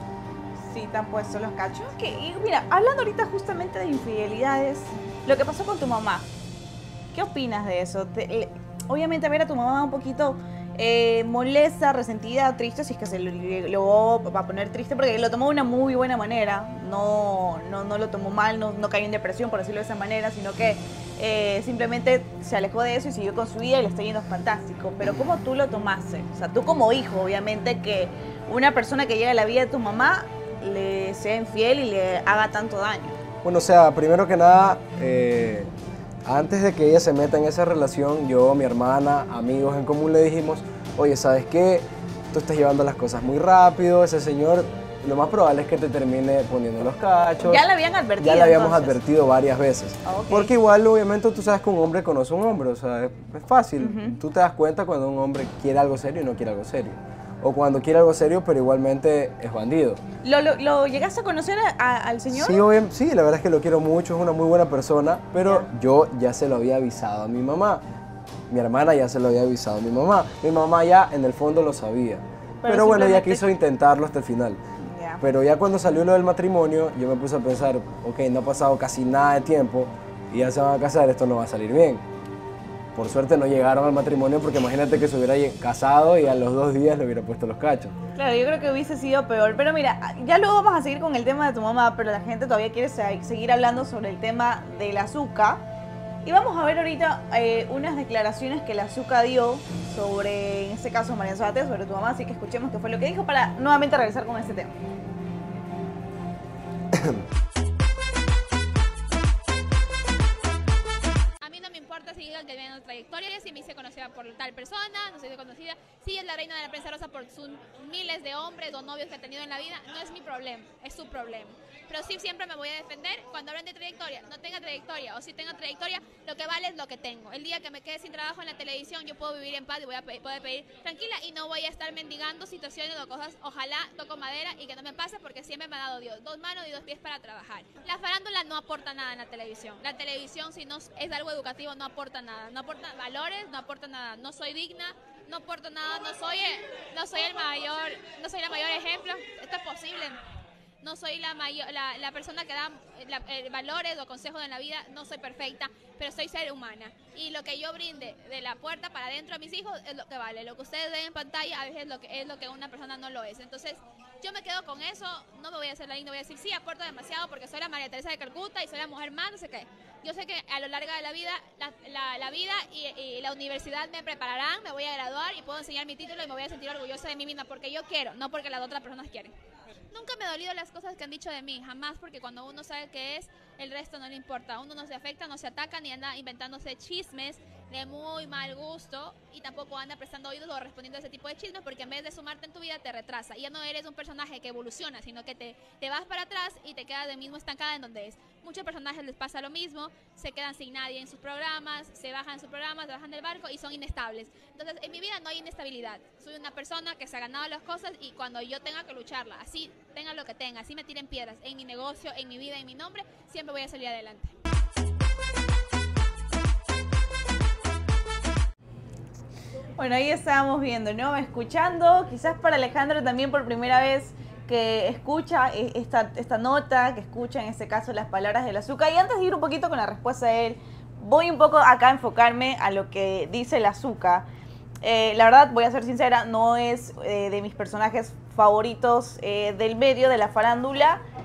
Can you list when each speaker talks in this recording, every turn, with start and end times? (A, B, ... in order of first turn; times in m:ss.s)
0:00.7-0:06.3 A
0:07.1-0:33.2 A
0:33.4-0:35.7 B
0:36.2-0:47.6 B
0:47.4-0:49.0 A
0:48.2-1:00.0 B
0:50.0-0:50.5 A
0:53.8-0:54.2 A
1:00.2-1:02.6 A
1:02.3-1:07.8 B
1:08.5-1:14.6 B
1:12.6-1:13.4 A
1:14.8-1:15.2 A
1:15.2-1:22.0 B
1:22.9-1:28.0 B
1:28.2-1:35.6 A
1:36.2-1:44.8 A
1:46.9-1:47.2 B
1:51.4-2:30.2 C
2:30.8-2:59.3 C
2:59.9-3:34.3 C
3:39.8-3:54.2 A
3:54.8-4:01.0 A